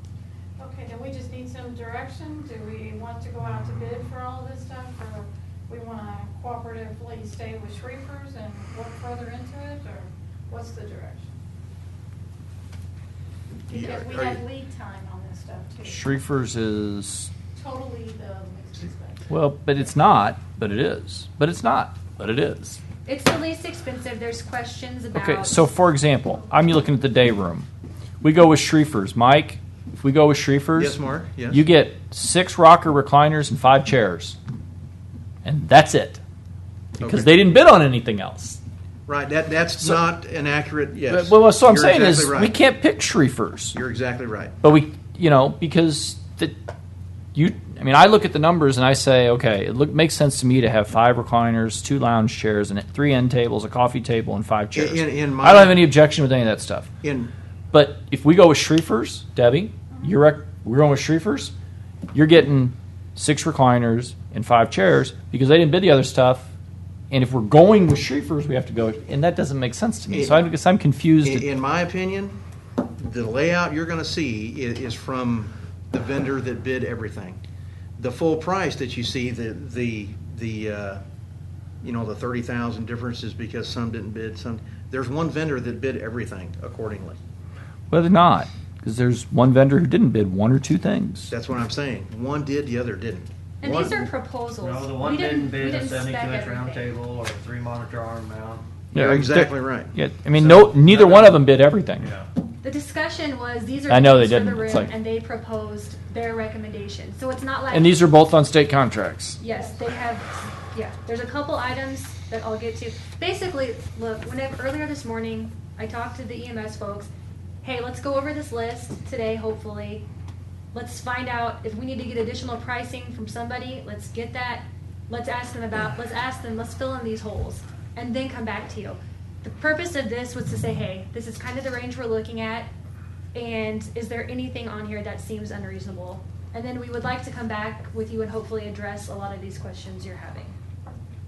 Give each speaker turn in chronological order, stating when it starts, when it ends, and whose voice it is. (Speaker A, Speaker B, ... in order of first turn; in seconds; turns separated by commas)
Speaker A: 0.6-11.3, Speaker B: 13.7-14.4, Speaker A: 13.7-16.1, Speaker C: 15.8-17.3, Speaker A: 17.5-19.3, Speaker C: 19.3-22.8, Speaker D: 23.1-25.7, Speaker C: 25.1-27.7, Speaker C: 28.2-34.4, Speaker B: 30.8-31.6, Speaker C: 35.4-36.2, Speaker C: 37.0-38.6, Speaker B: 37.0-37.4, Speaker B: 39.1-42.6, Speaker C: 41.1-43.8, Speaker B: 43.7-44.5, Speaker C: 44.6-46.5, Speaker C: 47.3-56.9, Speaker B: 54.7-55.8, Speaker B: 57.0-57.3, Speaker C: 57.7-61.5, Speaker C: 62.1-66.5, Speaker C: 67.1-71.5, Speaker B: 70.1-70.5, Speaker B: 71.2-72.4, Speaker B: 73.0-77.4, Speaker B: 78.0-81.0, Speaker B: 81.8-87.2, Speaker C: 87.9-91.3, Speaker B: 91.3-94.1, Speaker D: 93.6-96.9, Speaker E: 94.6-98.7, Speaker C: 98.9-102.1, Speaker B: 98.9-101.0, Speaker E: 100.9-101.2, Speaker E: 102.0-102.3, Speaker D: 102.6-108.0, Speaker C: 103.9-104.9, Speaker C: 107.7-109.4, Speaker D: 109.4-117.1, Speaker D: 117.6-120.0, Speaker D: 120.7-132.7, Speaker D: 133.3-140.6